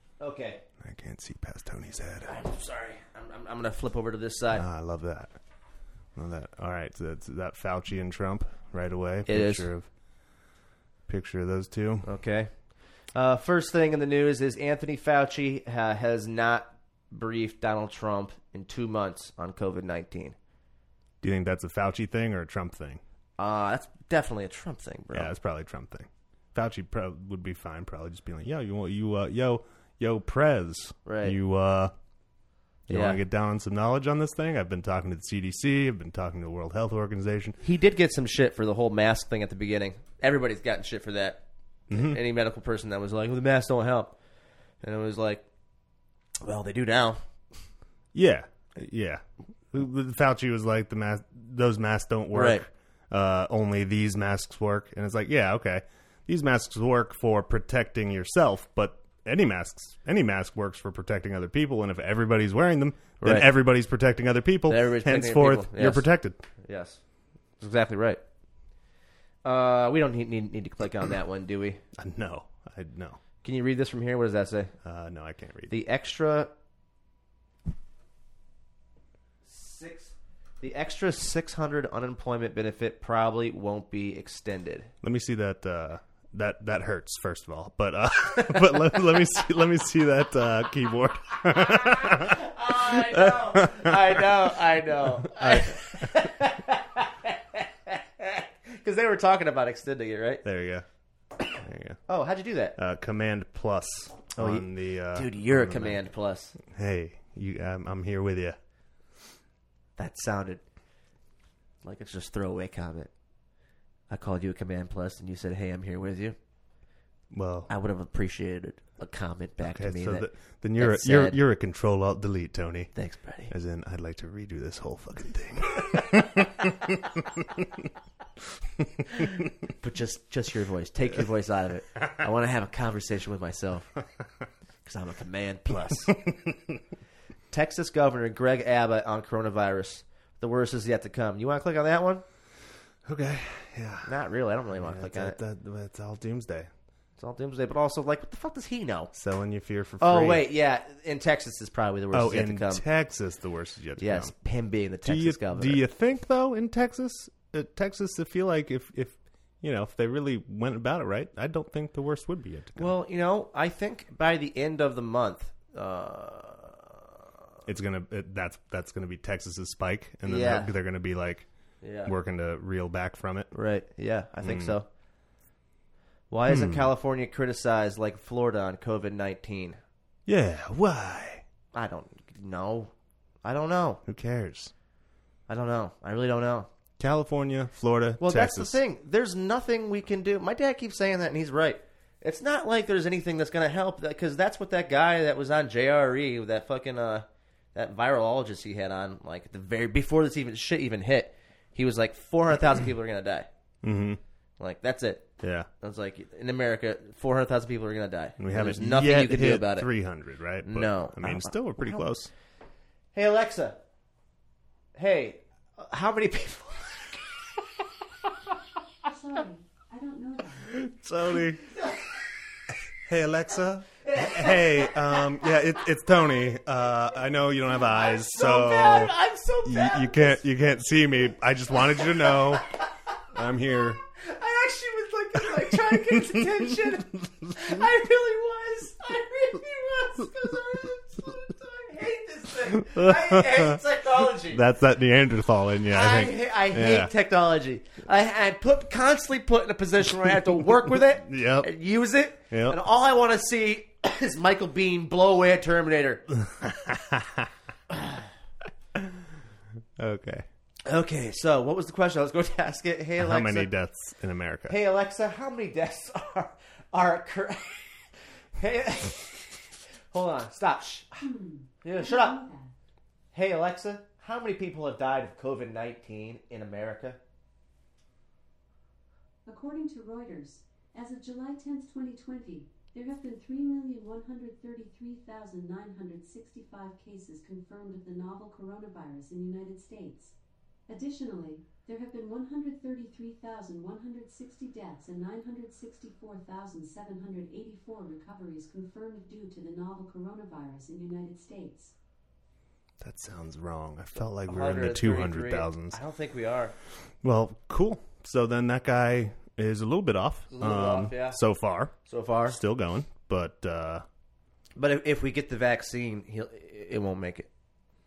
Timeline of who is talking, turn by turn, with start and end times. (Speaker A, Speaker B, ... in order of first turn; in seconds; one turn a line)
Speaker A: 0.2-0.6
Speaker B: 0.8-2.3
Speaker A: 2.2-4.6
Speaker B: 4.5-5.3
Speaker B: 6.1-9.9
Speaker A: 9.3-9.7
Speaker B: 11.1-12.1
Speaker A: 12.0-12.5
Speaker A: 13.1-20.4
Speaker B: 21.2-23.0
Speaker A: 23.4-25.3
Speaker B: 25.1-31.9
Speaker A: 31.0-31.4
Speaker B: 32.9-37.6
Speaker A: 32.9-33.2
Speaker A: 37.6-44.1
Speaker B: 41.9-42.2
Speaker A: 44.8-45.4
Speaker A: 46.4-47.2
Speaker B: 48.1-66.4
Speaker A: 52.3-52.6
Speaker A: 63.2-63.5
Speaker A: 64.7-66.0
Speaker A: 66.6-67.0
Speaker A: 67.6-68.2
Speaker A: 69.4-71.8
Speaker B: 72.0-73.2
Speaker A: 73.4-74.7
Speaker B: 74.8-75.7
Speaker A: 75.7-76.5
Speaker A: 79.4-84.9
Speaker B: 85.0-94.4
Speaker A: 88.5-88.8
Speaker A: 91.6-100.4
Speaker B: 95.2-96.1
Speaker B: 100.4-100.8
Speaker B: 101.5-102.0
Speaker A: 102.1-102.8
Speaker B: 102.8-106.0
Speaker A: 104.3-106.5
Speaker B: 106.6-108.6
Speaker A: 110.0-110.6
Speaker A: 111.8-113.1
Speaker A: 114.1-116.3
Speaker B: 117.3-117.7
Speaker A: 117.7-120.3
Speaker B: 119.6-122.9
Speaker A: 120.8-121.4
Speaker A: 122.9-123.5
Speaker B: 123.5-127.9
Speaker B: 128.8-129.1
Speaker A: 129.1-133.9
Speaker A: 134.8-136.2
Speaker B: 135.9-136.8
Speaker A: 137.5-142.2
Speaker B: 143.0-144.2
Speaker A: 144.1-145.4
Speaker B: 144.7-146.7
Speaker A: 147.2-149.1
Speaker B: 149.1-150.4
Speaker A: 150.0-152.8
Speaker B: 152.1-154.3
Speaker A: 154.0-155.8
Speaker B: 155.0-162.9
Speaker A: 162.8-167.2
Speaker B: 167.7-171.5
Speaker A: 170.2-170.7
Speaker A: 171.8-172.1
Speaker B: 172.0-173.5
Speaker A: 173.5-174.8
Speaker B: 174.4-174.8
Speaker A: 176.3-179.8
Speaker B: 176.5-176.9
Speaker B: 180.3-181.4
Speaker A: 181.7-182.9
Speaker A: 183.4-184.0
Speaker B: 184.1-184.7
Speaker A: 185.5-186.7
Speaker B: 187.0-188.8
Speaker A: 188.2-203.5
Speaker B: 203.8-204.2
Speaker A: 204.6-205.3
Speaker B: 205.4-205.7
Speaker A: 205.8-209.9
Speaker B: 208.4-212.3
Speaker A: 210.6-212.0
Speaker A: 213.1-213.8
Speaker A: 214.9-217.4
Speaker C: 219.1-220.8
Speaker B: 220.7-221.8
Speaker B: 223.1-229.1
Speaker A: 224.0-225.5
Speaker A: 227.9-230.4
Speaker B: 229.6-232.7
Speaker A: 231.9-232.8
Speaker B: 233.3-234.0
Speaker A: 233.7-244.6
Speaker B: 242.7-243.8
Speaker B: 244.4-247.1
Speaker A: 245.9-256.2
Speaker B: 251.2-251.7
Speaker B: 252.5-252.8
Speaker B: 256.4-257.5
Speaker A: 257.9-258.2
Speaker B: 260.0-260.4
Speaker A: 260.9-263.7
Speaker B: 263.2-264.8
Speaker A: 264.7-271.3
Speaker C: 271.2-272.7
Speaker A: 271.8-272.4
Speaker A: 273.3-277.2
Speaker C: 279.4-290.3
Speaker C: 290.9-301.9
Speaker B: 303.0-306.0
Speaker A: 304.4-306.7
Speaker B: 307.2-311.9
Speaker A: 310.5-311.4
Speaker A: 312.0-312.6
Speaker B: 312.5-314.0
Speaker A: 314.8-317.5